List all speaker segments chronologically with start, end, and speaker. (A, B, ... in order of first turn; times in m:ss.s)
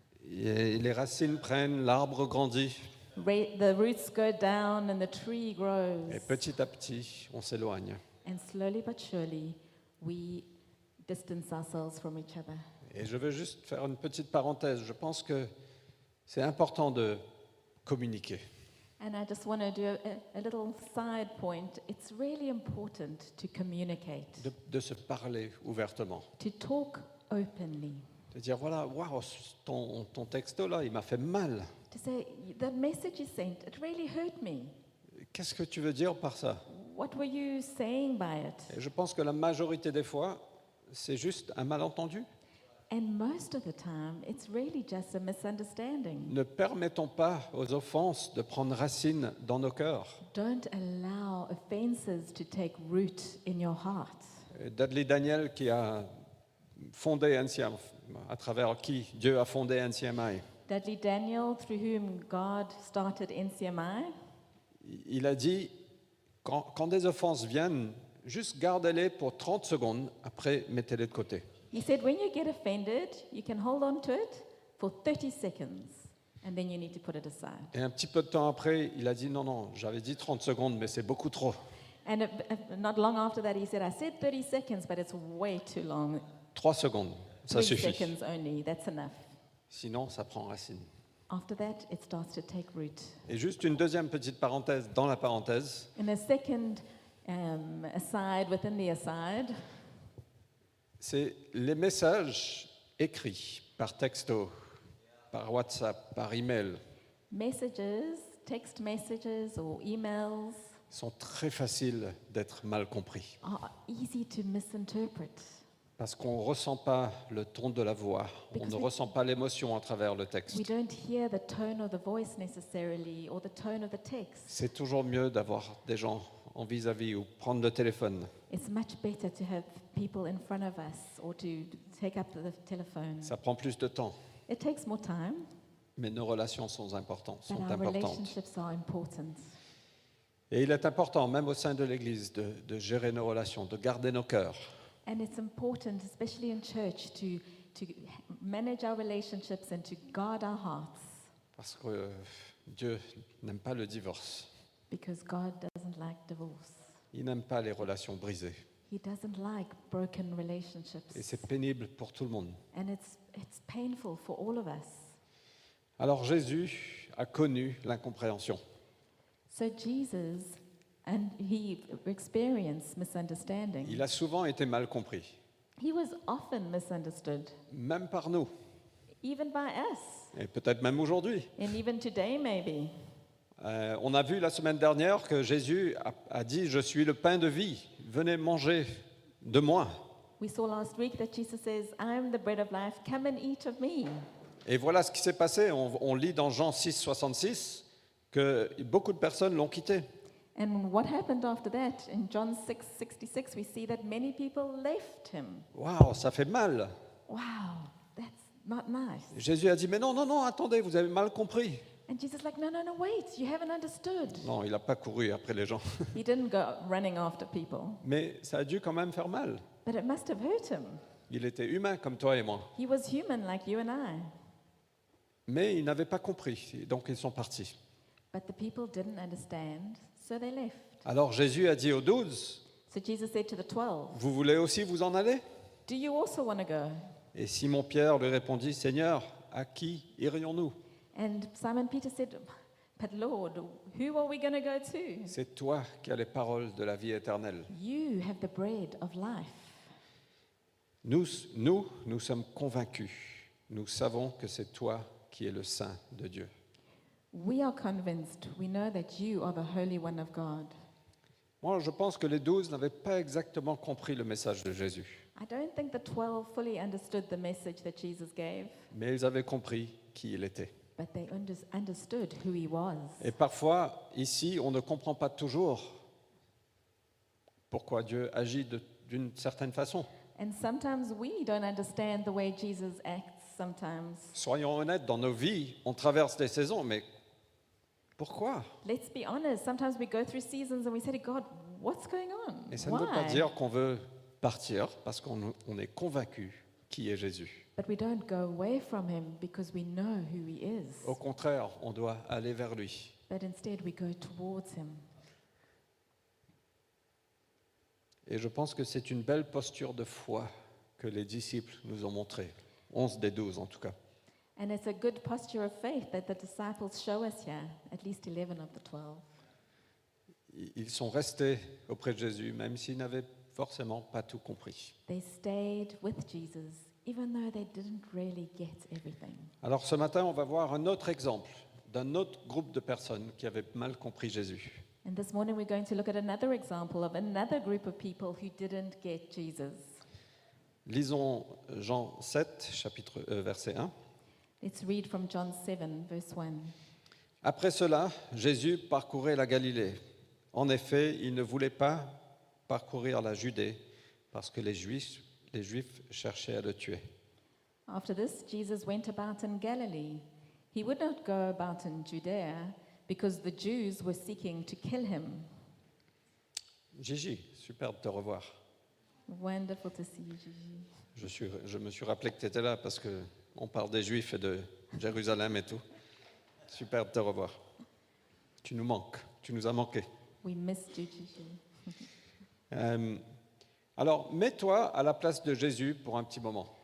0:00.2-0:03.0 A
0:03.2-0:06.5 B
0:06.1-0:08.0 A
0:08.2-0:10.5 B
0:11.0-0:12.7 B
0:12.9-0:15.5 A
0:16.3-0:17.2 A
0:17.8-0:18.4 A
0:19.0-0:24.5 B
0:24.4-0:26.3 A
0:26.4-0:28.1 B
0:28.3-0:31.7 A
0:31.9-0:34.8 B
0:35.2-0:36.7 A
0:36.7-0:38.8 B
0:38.7-0:42.3 A
0:42.9-0:46.4 B
0:46.2-0:50.2 A
0:50.3-0:54.3 B
0:54.5-0:56.1 A
0:56.8-1:00.5 A
1:00.7-1:04.1 B
1:04.8-1:05.8 A
1:06.4-1:11.5 A
1:11.7-1:17.7 B
1:17.7-1:21.6 A
1:22.0-1:26.2 B
1:26.6-1:28.1 A
1:27.5-1:29.3 B
1:29.7-1:30.9 A
1:31.3-1:33.2 B
1:33.3-1:35.9 A
1:36.0-1:39.6 B
1:41.0-1:44.8 A
1:45.3-1:46.8 A
1:47.3-1:50.7 B
1:50.9-1:53.4 A
1:53.4-1:55.6 B
1:56.0-2:00.7 A
1:58.5-1:58.9 B
2:00.5-2:04.5 B
2:04.5-2:08.3 A
2:08.5-2:13.4 B
2:13.2-2:14.2 A
2:14.5-2:15.4 B
2:16.0-2:18.3 A
2:17.5-2:19.6 B
2:20.5-2:24.7 A
2:25.1-2:31.2 B
2:31.6-2:34.5 A
2:34.9-2:36.9 B
2:37.1-2:38.6 A
2:38.9-2:41.4 B
2:41.1-2:42.6 A
2:42.7-2:45.2 B
2:46.0-2:48.6 A
2:49.5-2:54.0 B
2:53.8-2:55.4 A
2:55.8-2:57.6 B
2:57.7-2:58.5 A
2:59.2-3:00.3 B
3:00.3-3:01.6 A
3:01.6-3:02.9 B
3:03.6-3:10.1 A
3:10.4-3:14.3 B
3:14.7-3:20.0 A
3:20.6-3:25.7 B
3:25.7-3:26.9 A
3:27.3-3:29.4 B
3:29.3-3:31.9 A
3:32.1-3:34.5 B
3:34.4-3:36.2 A
3:36.1-3:38.0 B
3:38.0-3:39.6 A
3:39.8-3:41.0 B
3:41.3-3:42.7 A
3:42.8-3:44.3 B
3:45.5-3:47.7 A
3:48.3-3:51.0 B
3:51.0-3:52.6 A
3:52.9-3:54.2 B
3:54.1-3:55.4 A
3:55.9-3:57.0 B
3:57.3-4:00.8 A
4:01.1-4:05.4 B
4:05.3-4:07.7 A
4:07.7-4:09.9 B
4:11.0-4:16.5 A
4:17.3-4:20.7 B
4:21.6-4:25.3 A
4:25.4-4:28.8 B
4:28.9-4:30.7 A
4:31.0-4:33.3 B
4:33.2-4:36.0 A
4:37.7-4:40.1 A
4:40.4-4:44.4 B
4:44.3-4:47.1 A
4:48.2-4:48.8 A
4:48.8-4:53.5 B
4:52.7-4:57.7 A
4:57.8-5:01.2 B
5:01.0-5:03.2 A
5:03.3-5:05.0 B
5:08.3-5:14.0 A
5:14.6-5:19.3 B
5:20.5-5:24.9 A
5:25.1-5:29.5 B
5:29.6-5:34.8 A
5:35.0-5:39.9 B
5:40.9-5:43.9 A
5:44.6-5:46.8 B
5:47.4-5:50.0 A
5:50.5-5:53.8 A
5:54.3-5:57.0 A
5:57.9-6:05.5 B
6:06.9-6:08.6 A
6:09.3-6:10.9 B
6:11.2-6:15.8 A
6:16.7-6:17.6 A
6:18.6-6:20.1 A
6:20.4-6:22.0 B
6:22.7-6:23.2 A
6:24.0-6:26.7 A